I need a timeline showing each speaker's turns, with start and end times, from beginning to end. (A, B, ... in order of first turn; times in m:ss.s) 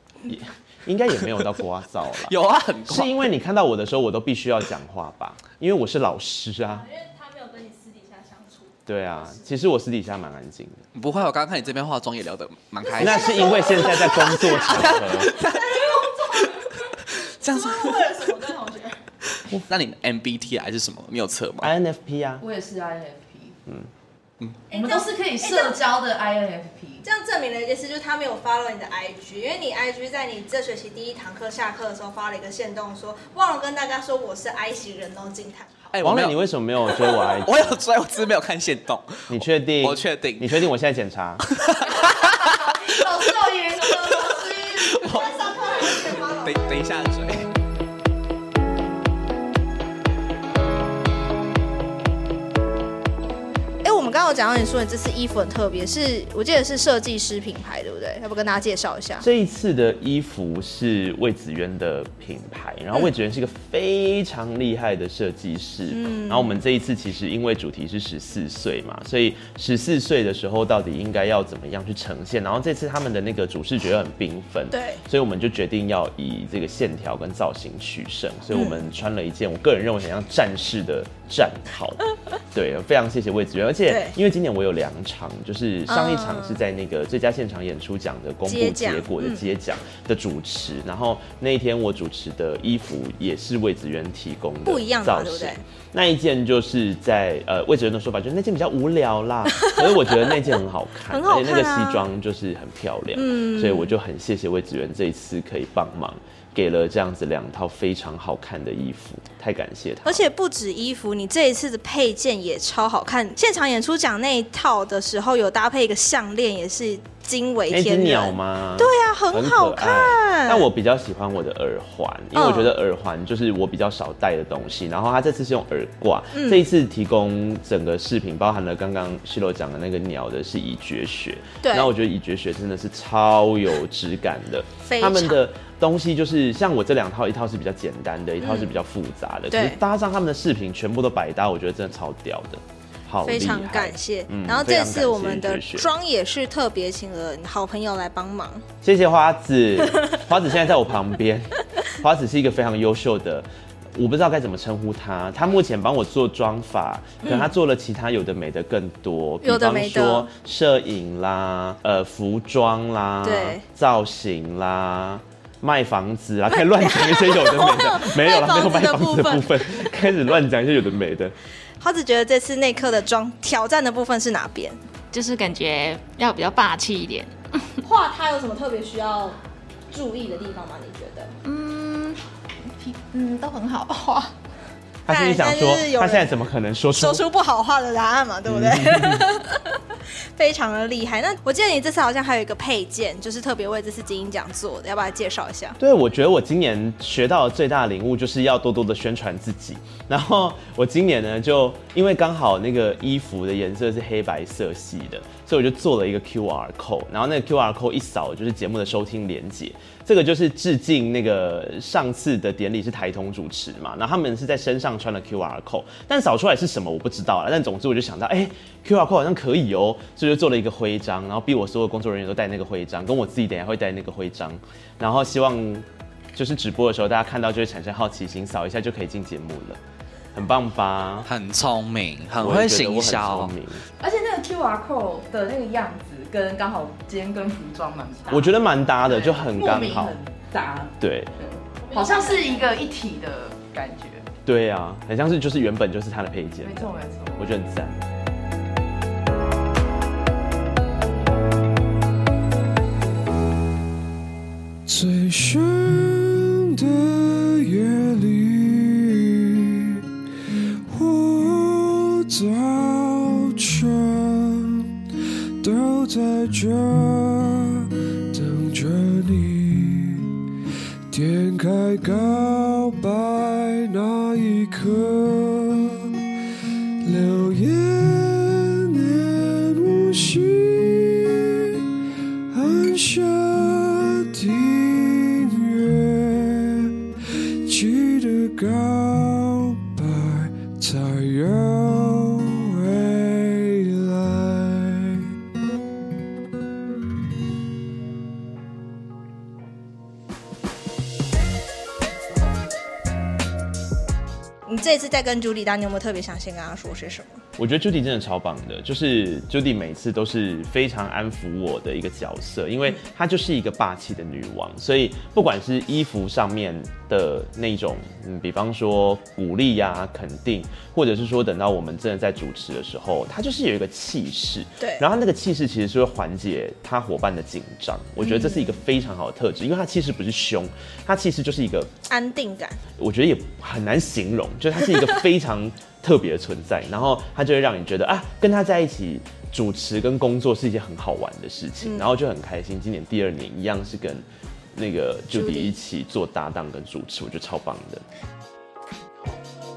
0:00.3-0:02.4 A
0:02.2-0:03.2 B
0:02.9-0:06.9 A
0:06.7-0:09.4 C
0:08.9-0:10.8 A
0:10.9-0:18.4 B
0:12.9-0:16.8 C
0:13.0-0:15.4 A
0:17.4-0:19.0 C
0:19.4-0:21.7 B
0:21.6-0:22.4 A
0:22.4-0:23.6 D
0:24.7-0:25.8 C
0:24.7-0:27.0 D
0:27.0-0:35.8 C
0:35.9-0:40.6 B
0:36.0-0:37.8 A
0:39.3-0:41.4 A
0:41.5-0:47.5 B
0:42.8-0:46.8 C
0:43.0-0:45.0 D
0:53.8-0:59.3 C
0:59.2-1:50.3 A
1:05.9-1:06.6 C
1:14.7-1:15.0 C
1:18.5-1:18.8 C
1:23.9-1:24.2 C
1:25.9-1:26.6 C
1:28.5-1:29.4 C
1:34.6-1:35.6 C
1:39.6-1:39.8 C
1:41.1-1:42.0 C
1:43.2-1:43.9 C
1:50.0-2:00.7 C
1:57.7-2:25.9 A
2:02.3-2:02.7 C
2:06.3-2:06.6 C
2:11.6-2:11.9 C
2:14.8-2:15.4 C
2:18.4-2:18.8 C
2:19.5-2:19.8 C
2:23.2-2:28.6 C
2:28.8-2:51.4 A
2:37.2-2:37.5 C
2:39.4-2:40.3 C
2:43.2-2:43.6 C
2:46.5-2:49.9 C
2:51.8-2:54.8 C
2:55.1-2:57.7 E
2:57.8-2:59.4 C
2:59.9-3:01.4 C
3:01.4-3:04.3 E
3:05.1-3:07.2 A
3:05.1-3:06.4 C
3:06.9-3:09.8 C
3:08.5-3:09.3 A
3:10.4-3:15.8 C
3:15.8-3:49.8 A
3:50.3-3:51.3 A
3:51.3-3:53.5 B
3:52.4-3:53.8 A
3:54.0-4:04.3 D
3:58.3-4:00.2 A
4:01.0-4:01.3 A
4:01.8-4:02.8 C
4:04.5-4:08.0 A
4:06.6-4:07.5 D
4:14.9-4:20.0 F
4:20.9-4:24.9 F
4:25.6-4:30.3 F
4:31.1-4:36.1 F
4:37.0-4:41.8 F
4:42.5-4:47.0 F
4:47.6-4:55.3 F
5:04.7-5:07.4 C
5:07.6-5:31.9 A
5:24.8-5:25.0 C
5:28.2-5:28.8 C
5:32.1-5:32.8 C
5:33.0-5:48.0 A
5:41.8-5:42.1 C
5:45.3-5:45.7 C